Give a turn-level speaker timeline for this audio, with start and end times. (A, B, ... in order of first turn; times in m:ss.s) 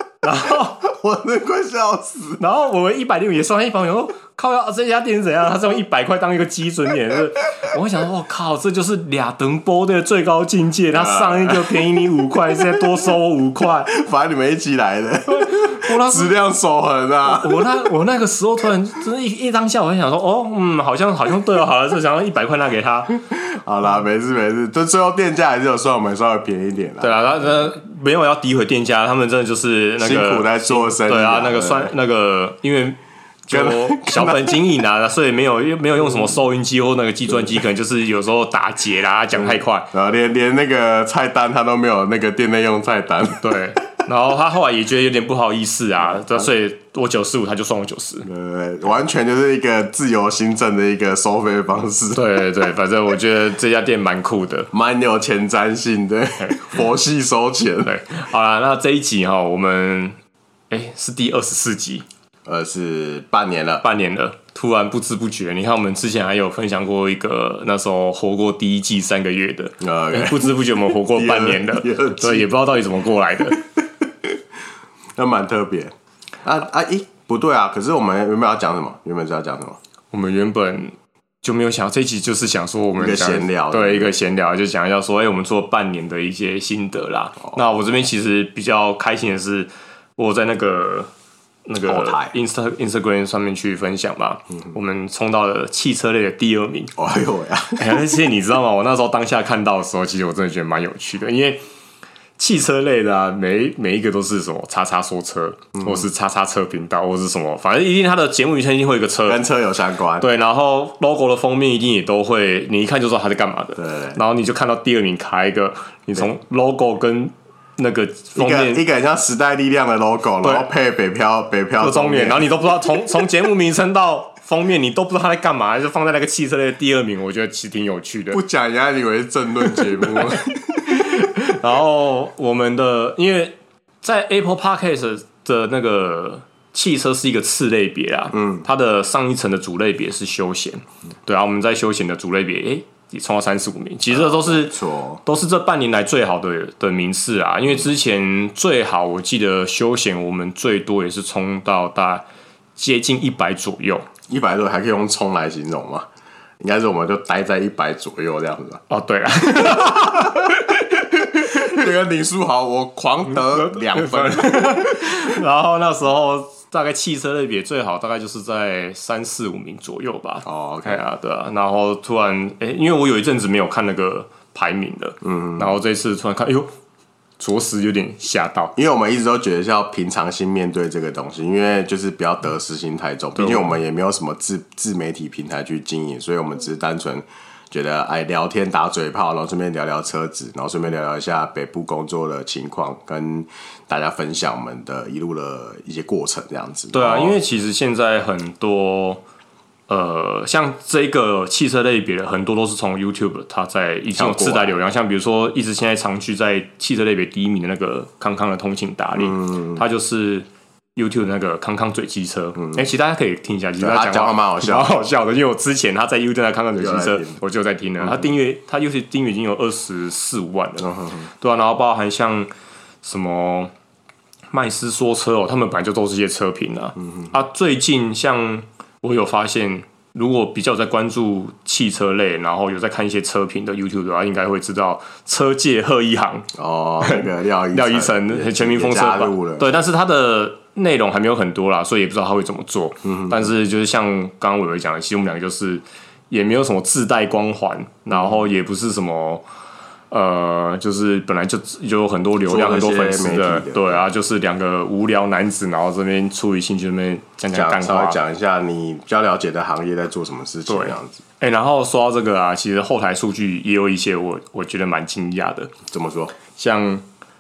0:00.2-0:00.8 A
0:00.8-0:02.4 B
0:02.4-0:13.9 A
0:10.9-0:13.2 B
0:13.8-0:17.9 B
0:15.3-0:16.3 A
0:17.2-0:23.2 A
0:23.2-0:27.7 B
0:27.0-0:39.9 A
0:30.0-0:31.9 B
0:33.5-0:34.7 B
0:39.3-0:43.5 B
0:43.4-0:48.3 A
0:46.0-0:46.5 B
0:48.2-0:52.2 B
0:52.2-0:54.7 A
0:54.7-0:57.9 B
0:56.4-0:56.7 A
0:57.8-1:00.2 A
1:00.7-1:02.0 A
1:02.5-1:03.8 B
1:03.8-1:13.6 A
1:09.8-1:12.5 B
1:15.2-1:15.9 B
1:16.4-1:19.8 B
1:20.1-1:31.1 A
1:23.0-1:24.2 B
1:31.7-1:36.9 A
1:31.8-1:32.4 B
1:37.0-1:38.1 B
1:37.8-1:41.6 A
1:42.4-1:49.4 A
1:45.8-1:46.1 B
1:49.2-1:50.3 B
1:50.2-1:58.8 A
1:53.8-1:54.2 B
1:58.4-2:02.6 B
2:00.4-2:00.7 A
2:01.8-2:08.4 A
2:08.3-2:11.0 B
2:09.8-2:10.3 A
2:10.8-2:32.2 A
2:18.3-2:18.7 B
2:24.1-2:25.2 B
2:32.8-2:34.1 A
2:34.3-2:36.1 B
2:36.6-2:38.8 B
2:38.9-2:41.0 A
2:39.9-2:40.6 B
2:41.2-2:45.4 B
2:43.3-2:56.7 A
2:50.4-2:51.0 B
2:55.2-2:55.7 B
2:57.4-2:58.7 A
2:58.8-3:17.4 B
3:03.4-3:03.8 A
3:16.9-3:19.2 A
3:19.9-3:40.9 A
3:24.2-3:24.7 B
3:29.2-3:29.8 B
3:32.6-3:32.9 B
3:33.8-3:34.9 B
3:36.8-3:37.4 B
3:38.0-3:38.4 B
3:40.8-3:41.3 B
3:41.4-3:42.5 A
3:43.0-3:43.7 A
3:44.5-3:56.5 A
3:56.6-3:59.7 B
3:57.0-4:09.4 A
4:03.0-4:03.5 B
4:10.1-4:18.2 A
4:12.5-4:14.1 B
4:17.5-4:21.2 B
4:20.7-4:25.7 A
4:25.9-4:26.4 B
4:26.6-4:27.0 A